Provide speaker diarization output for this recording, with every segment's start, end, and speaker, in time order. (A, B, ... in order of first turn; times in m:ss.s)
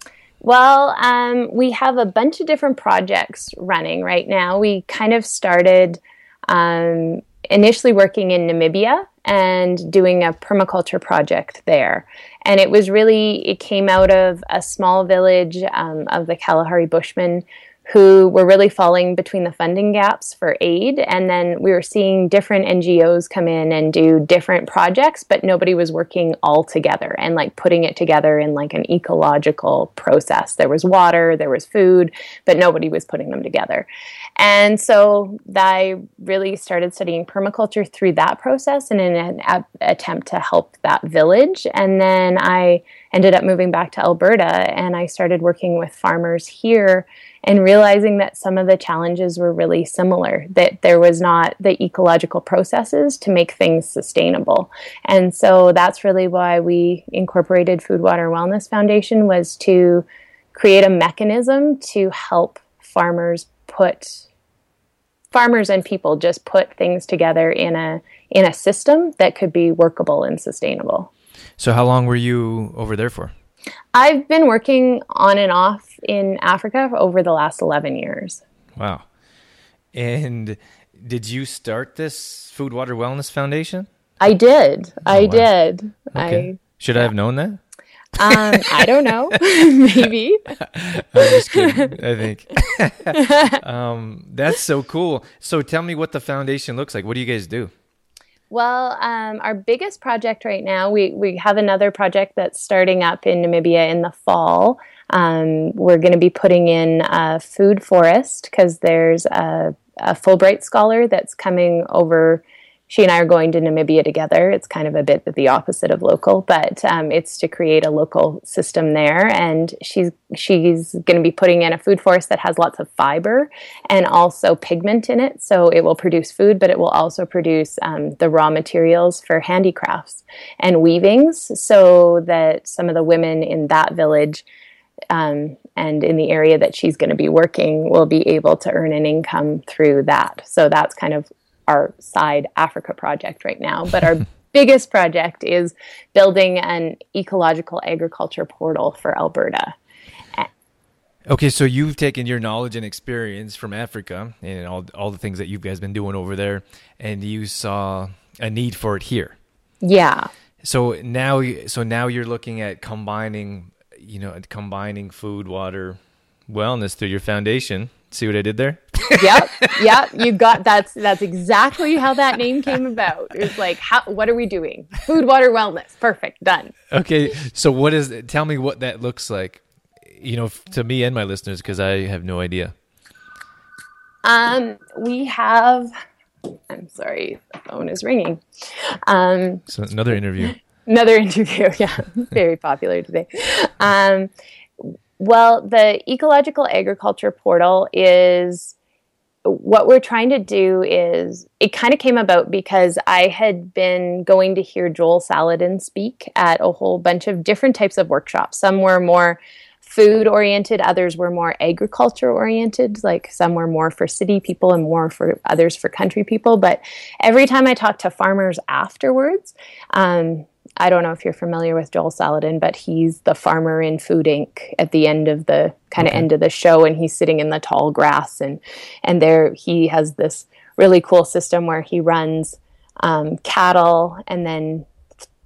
0:00.4-1:04.2 A
1:05.3-1:11.1 A
1:11.6-1:13.3 B
1:14.0-1:18.4 A
1:18.8-1:19.1 B
1:19.9-1:23.9 B
1:24.2-1:26.6 A
1:25.1-1:25.5 B
1:26.1-1:27.6 B
1:28.2-1:30.5 A
1:28.2-1:28.9 B
1:30.6-1:37.7 B
1:31.3-1:32.0 A
1:33.2-1:33.6 A
1:38.5-2:14.4 A
2:15.1-2:29.7 A
2:31.3-2:39.4 B
2:39.8-2:40.3 A
2:40.6-2:50.0 B
2:49.2-2:56.7 A
2:56.9-3:02.7 B
3:04.2-3:05.9 A
3:06.7-3:09.6 A
3:09.7-3:10.6 B
3:10.9-3:14.3 A
3:14.8-3:18.8 A
3:19.4-3:54.9 A
3:46.0-3:46.3 B